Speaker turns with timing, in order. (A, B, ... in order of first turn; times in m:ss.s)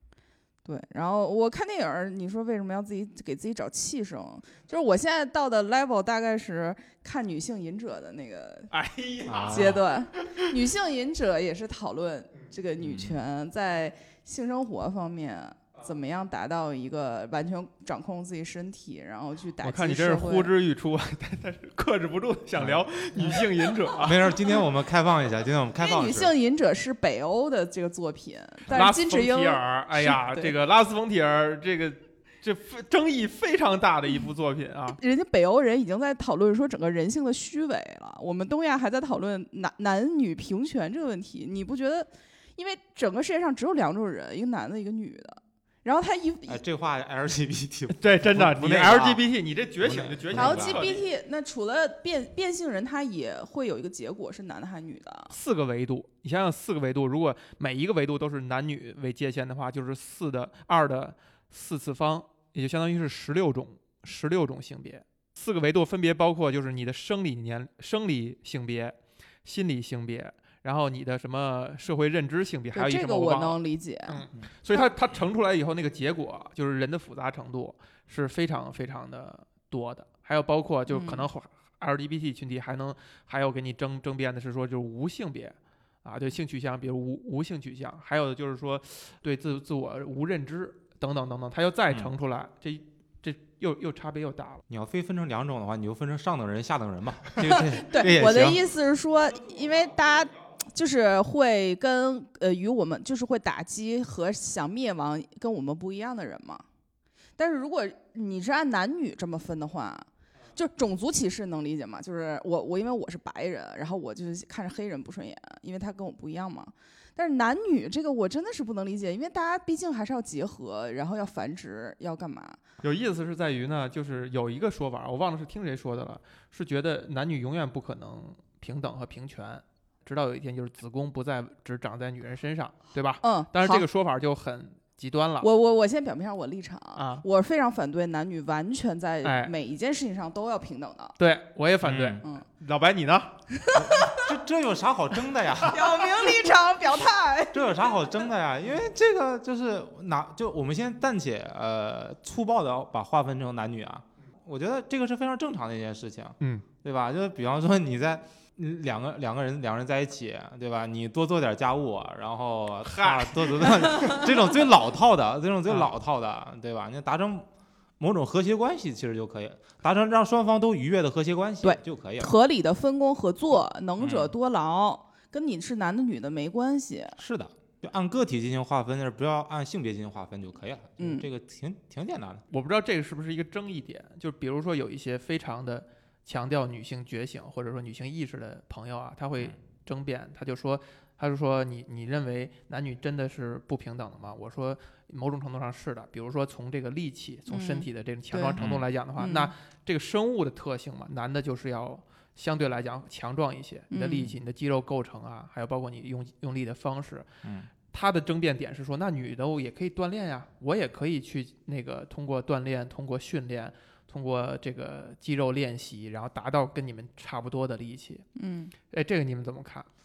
0:00.6-0:08.7 A
0:08.7-0:10.5 B
0:09.3-0:09.8 C
0:09.5-0:20.5 A
0:12.8-0:13.2 C
0:19.6-0:24.2 B
0:22.6-0:22.8 C
0:24.0-0:26.3 C
0:25.8-0:30.5 A
0:28.7-0:35.0 B
0:34.9-0:46.6 A
0:46.5-0:49.2 C
0:47.9-0:51.0 B
0:49.8-0:50.9 C
0:50.3-0:55.3 A
0:55.3-1:34.6 B
1:12.7-1:14.8 A
1:20.9-1:21.3 A
1:34.7-1:38.6 C
1:37.4-1:46.6 A
1:47.4-2:02.6 A
2:02.8-2:15.5 B
2:13.2-2:13.9 A
2:15.4-2:21.2 A
2:17.0-2:17.2 B
2:19.2-2:19.5 B
2:21.2-2:23.4 B
2:21.8-2:22.2 C
2:23.6-2:24.3 A
2:23.8-2:26.0 C
2:25.7-2:27.9 A
2:27.5-2:47.5 C
2:36.4-2:36.6 B
2:42.9-2:44.2 B
2:48.0-2:52.3 C
2:51.6-2:57.2 A
2:54.0-2:54.3 C
2:57.2-3:02.4 C
3:01.0-3:01.3 A
3:02.5-3:27.3 B
3:17.5-3:18.6 A
3:19.2-3:19.5 A
3:23.9-3:24.4 A
3:27.4-3:27.7 C
3:27.9-3:38.2 B
3:38.4-3:38.7 A
3:38.9-3:39.9 B